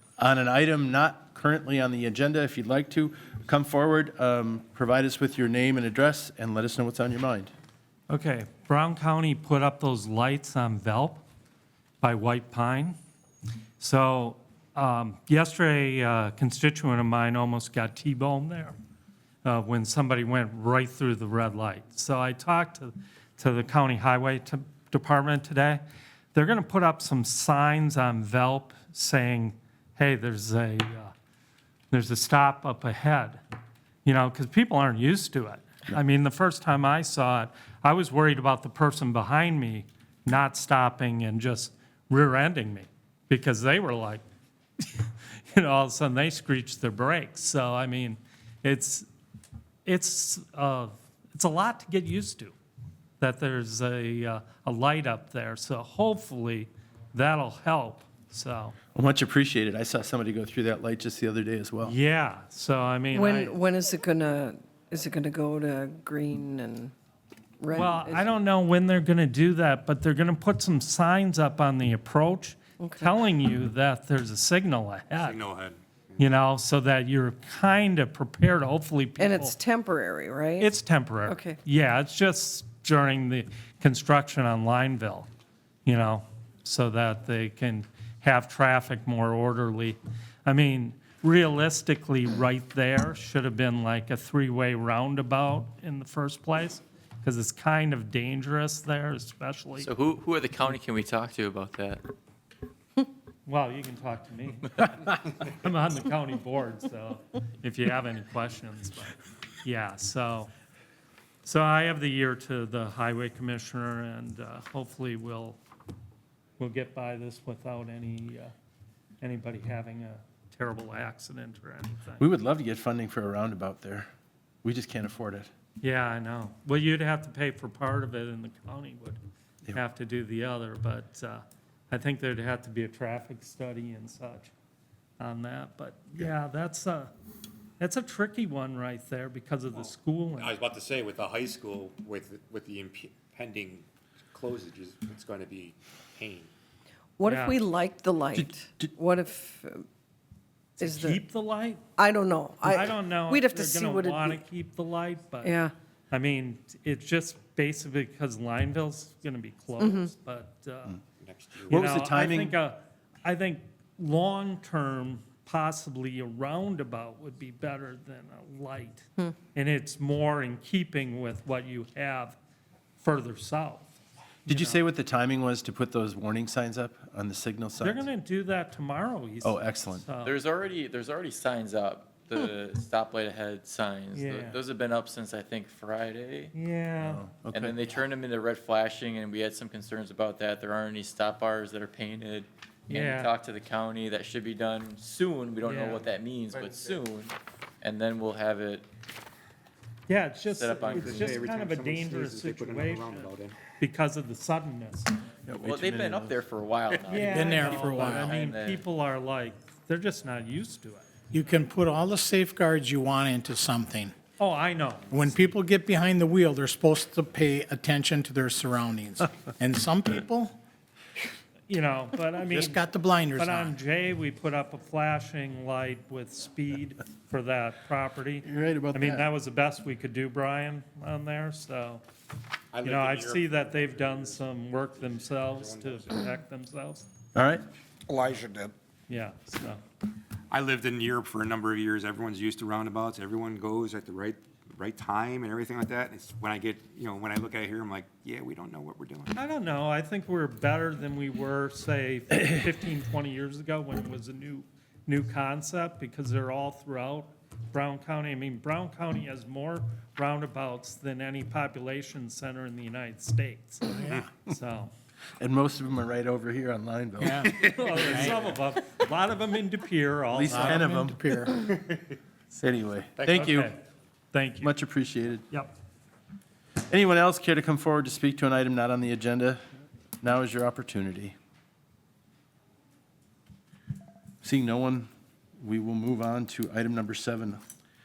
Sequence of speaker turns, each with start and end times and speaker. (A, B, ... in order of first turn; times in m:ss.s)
0:00.2-0:07.5 A
0:08.1-0:11.2 B
0:12.0-0:13.0 B
0:13.8-0:18.7 B
0:19.4-0:25.8 B
0:26.3-0:31.1 B
0:31.9-0:33.4 B
0:34.0-0:44.2 B
0:44.9-0:49.1 B
0:49.8-0:52.5 B
0:53.2-0:58.7 B
0:58.9-1:01.9 A
1:01.8-1:03.6 B
1:03.1-1:06.9 C
1:07.6-1:08.2 C
1:07.7-1:15.4 B
1:12.8-1:13.1 C
1:15.2-1:16.3 D
1:16.2-1:19.6 B
1:19.2-1:20.7 C
1:20.6-1:25.3 B
1:21.2-1:21.6 C
1:25.8-1:39.9 B
1:39.9-1:42.0 E
1:40.2-1:41.8 C
1:43.4-1:50.5 B
1:51.4-1:55.6 B
1:56.6-1:58.5 B
1:59.2-2:02.2 B
2:02.2-2:04.1 A
2:04.6-2:05.5 A
2:05.8-2:09.2 B
2:09.7-2:14.5 B
2:15.2-2:17.1 B
2:17.8-2:20.6 B
2:20.4-2:26.5 D
2:27.2-2:29.8 C
2:27.2-2:27.6 B
2:28.3-2:28.9 A
2:30.8-2:31.8 B
2:30.8-2:31.2 C
2:32.0-2:34.4 C
2:32.6-2:41.0 B
2:35.4-2:35.7 C
2:41.2-2:41.9 D
2:41.6-2:52.4 B
2:41.7-2:42.6 A
2:53.0-2:53.9 B
2:54.4-2:54.8 B
2:54.5-2:58.1 A
2:57.8-3:00.4 B
2:59.4-3:00.0 A
3:00.3-3:02.3 C
3:00.4-3:04.2 E
3:03.0-3:06.4 C
3:04.1-3:04.6 B
3:04.8-3:06.5 E
3:06.5-3:07.2 B
3:07.0-3:07.8 A
3:07.6-3:10.0 E
3:07.9-3:12.4 C
3:10.8-3:12.4 E
3:12.9-3:13.3 B
3:12.9-3:16.8 C
3:13.2-3:18.8 E
3:15.6-3:16.0 B
3:16.5-3:17.0 D
3:18.1-3:18.8 C
3:20.1-3:25.1 B
3:20.6-3:21.2 C
3:20.7-3:23.6 D
3:25.4-3:26.4 A
3:25.6-3:28.7 E
3:27.0-3:31.1 B
3:27.1-3:28.4 F
3:27.2-3:28.8 C
3:31.3-3:34.1 F
3:34.4-3:35.2 B
3:35.1-3:40.6 F
3:41.7-3:42.8 B
3:42.5-3:43.7 F
3:43.4-3:52.0 B
3:48.4-3:49.3 A
3:52.7-3:56.3 D
3:52.8-3:57.0 B
3:57.3-3:57.6 A
3:58.1-3:58.7 D
3:59.1-3:59.8 B
4:00.5-4:09.3 D
4:09.3-4:23.9 B
4:23.9-4:24.2 F
4:24.4-4:24.9 B
4:25.4-4:27.5 A
4:27.2-4:28.4 F
4:27.6-4:30.8 B
4:30.3-4:31.5 A
4:30.4-4:31.6 F
4:32.5-4:33.7 A
4:33.2-4:33.5 D
4:33.3-4:33.8 B
4:34.3-4:34.7 B
4:34.6-4:35.5 A
4:36.9-4:39.6 A
4:40.2-4:41.3 A
4:44.4-4:45.1 A
4:45.6-4:47.6 A